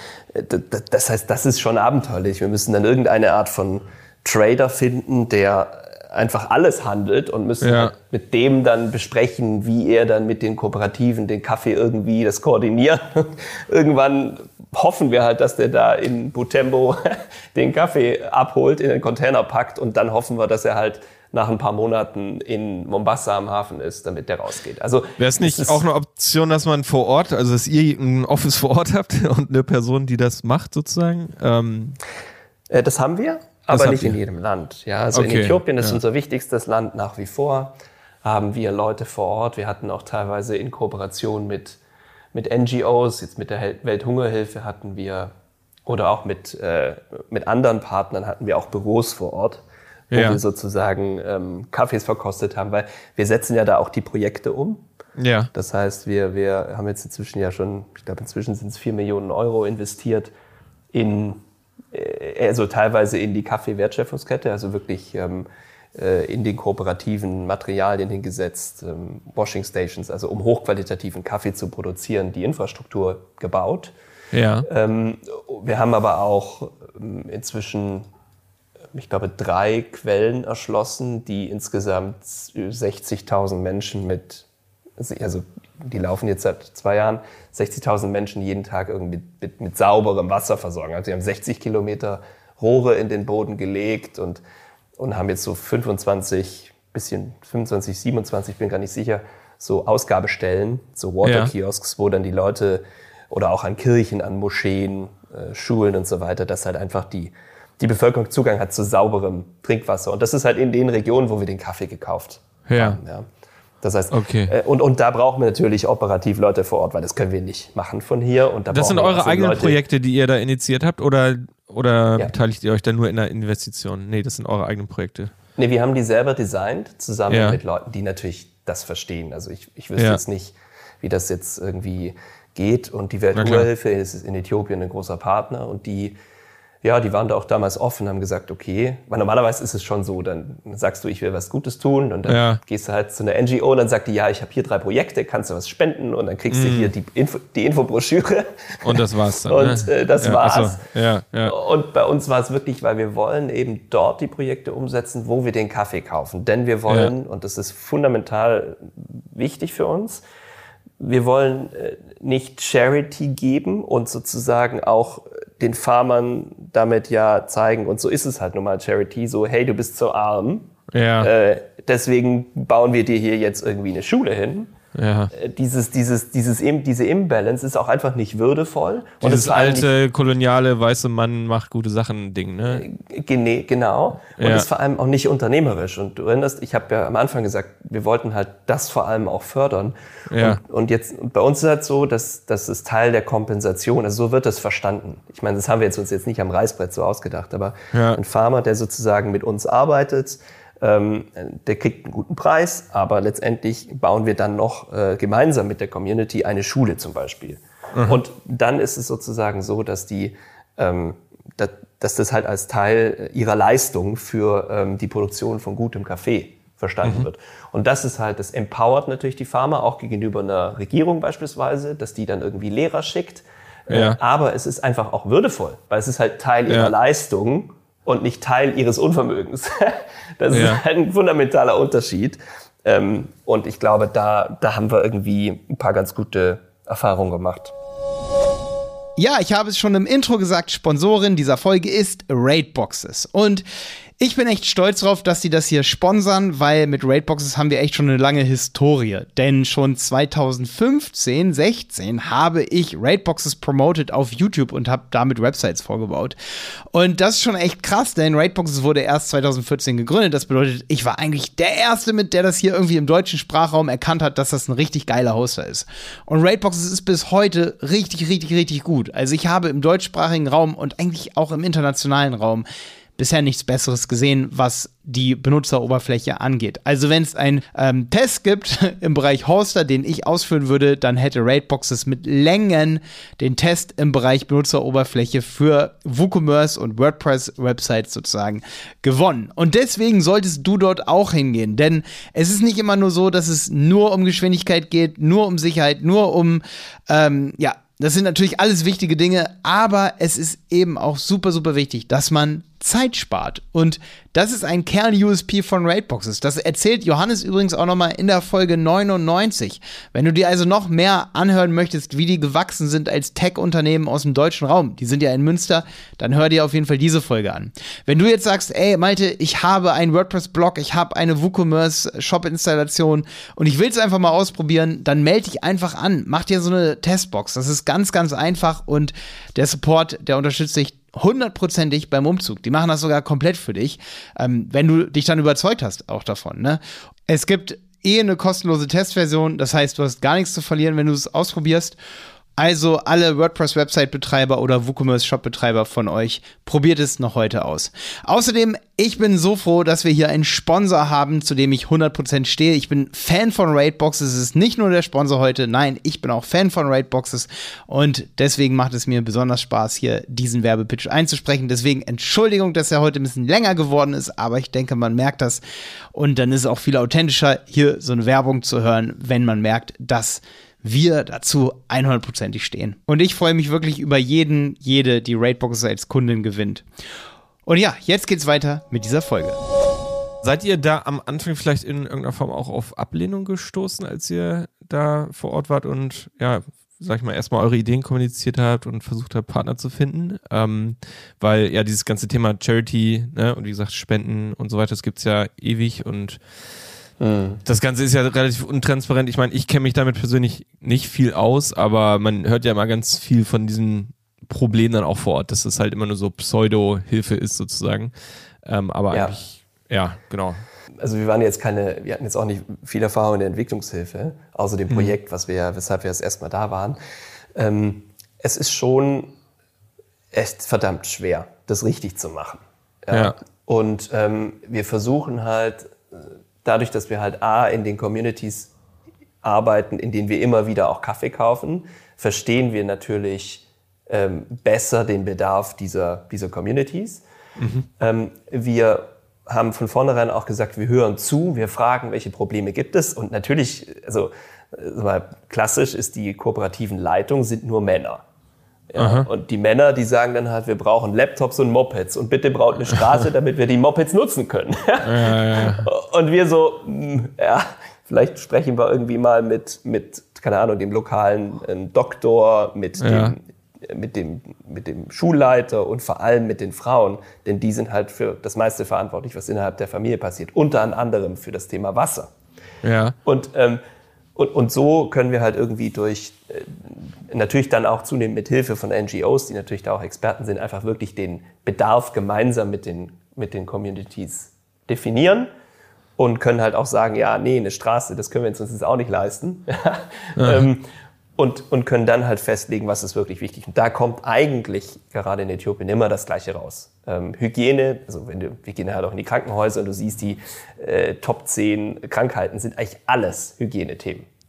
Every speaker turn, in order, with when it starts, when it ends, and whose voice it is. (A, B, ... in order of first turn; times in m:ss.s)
0:00.3-0:25.8 A
0:07.6-0:07.9 B
0:25.2-0:32.0 B
0:32.7-0:41.8 A
0:33.7-0:34.2 B
0:35.1-0:36.0 B
0:42.3-0:45.3 A
0:45.8-0:54.8 A
0:50.1-0:50.4 B
0:55.2-0:55.5 B
0:55.5-1:00.3 A
1:00.9-1:01.4 A
1:01.9-1:13.9 A
1:14.3-1:14.7 B
1:14.6-1:18.0 A
1:18.9-1:24.4 A
1:25.0-1:34.4 A
1:35.0-1:53.3 A
1:41.2-1:41.5 B
1:52.7-1:53.0 B
1:53.8-1:59.8 A
1:54.1-1:54.5 B
1:58.7-2:05.3 B
2:05.6-2:16.2 A
2:07.3-2:07.6 B
2:10.0-2:10.2 B
2:13.4-2:13.7 B
2:16.8-2:30.8 A
2:22.3-2:22.6 B
2:26.5-2:26.9 B
2:28.8-2:31.5 B
2:31.4-2:40.2 A
2:41.0-2:54.7 A
2:50.9-2:51.3 B
2:54.9-2:55.3 B
2:55.3-2:59.9 A
2:59.2-3:02.8 B
3:02.7-3:57.7 A
3:04.4-3:04.7 B
3:10.3-3:10.6 B
3:17.9-3:18.2 B
3:27.9-3:28.2 B
3:43.9-3:44.2 B
3:46.7-3:46.9 B
3:50.5-3:50.8 B
3:59.2-4:03.6 C
4:04.2-4:16.4 C
4:16.9-4:32.6 C
4:33.2-5:42.0 C
5:42.6-6:05.6 C
6:06.1-6:16.8 C
6:17.6-6:19.6 C
6:20.4-6:36.4 B
6:37.2-6:37.6 A
6:37.6-6:50.6 B
6:49.1-6:49.4 A
6:51.0-6:57.0 A
6:57.6-6:59.3 A
7:00.3-7:08.7 A
7:09.4-7:17.2 A
7:17.6-7:17.9 B
7:18.0-7:28.2 A
7:28.9-7:52.3 A
7:29.0-7:29.3 B
7:35.0-7:35.8 B
7:43.0-7:43.3 B
7:52.8-7:53.2 B
7:53.2-7:53.8 A
7:54.4-8:05.5 A
8:06.2-8:24.2 A
8:10.4-8:10.7 B